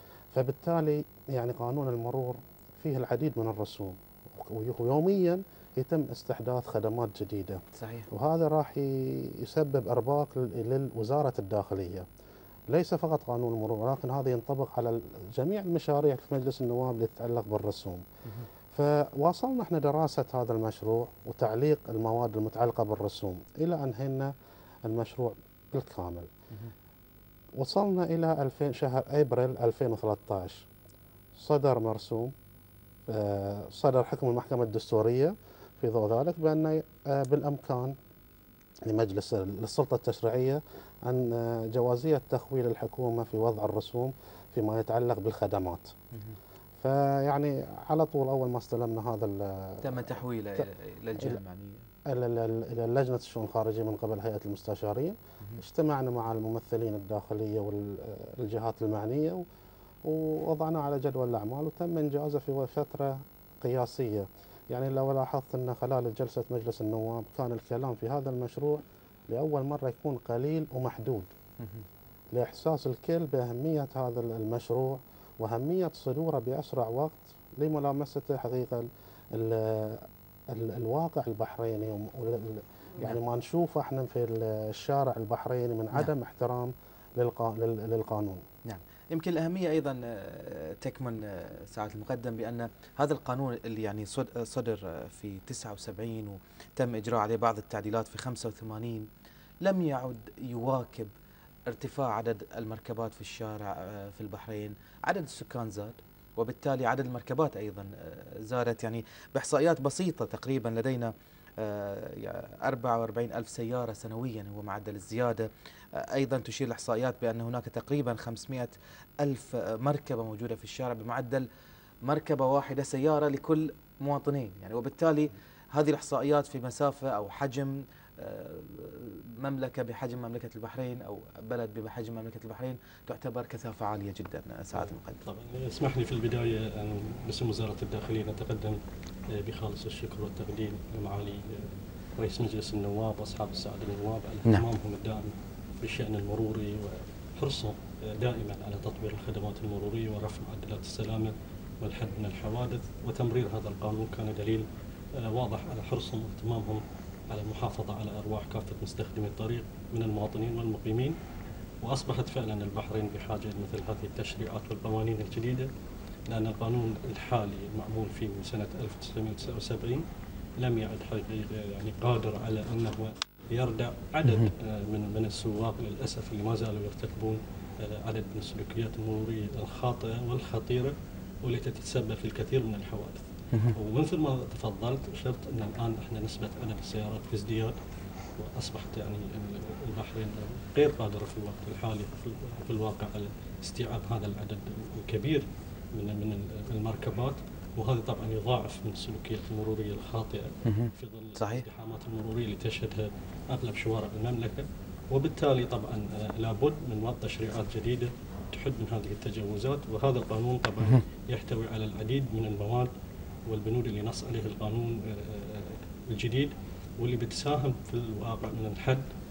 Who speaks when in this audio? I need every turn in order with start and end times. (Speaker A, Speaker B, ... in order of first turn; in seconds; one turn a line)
Speaker A: 0.3-12.1
Speaker B: 7.8-8.1
Speaker A: 12.7-18.0
Speaker A: 18.7-24.3
Speaker A: 24.9-26.3
Speaker A: 27.6-30.6
Speaker A: 31.4-32.3
Speaker A: 33.1-37.9
Speaker A: 38.9-45.9
Speaker A: 46.8-50.6
Speaker B: 49.8-51.9
Speaker A: 52.0-59.4
Speaker A: 60.0-71.3
Speaker B: 71.6-71.8
Speaker A: 72.3-88.4
Speaker B: 88.6-99.1
Speaker B: 99.6-101.1
Speaker B: 101.7-121.5
Speaker B: 122.0-135.2
Speaker C: 134.7-161.2
Speaker C: 161.8-165.7
Speaker C: 166.3-170.0
Speaker C: 170.6-187.8
Speaker C: 188.3-212.9
Speaker B: 200.7-201.6
Speaker C: 213.5-219.1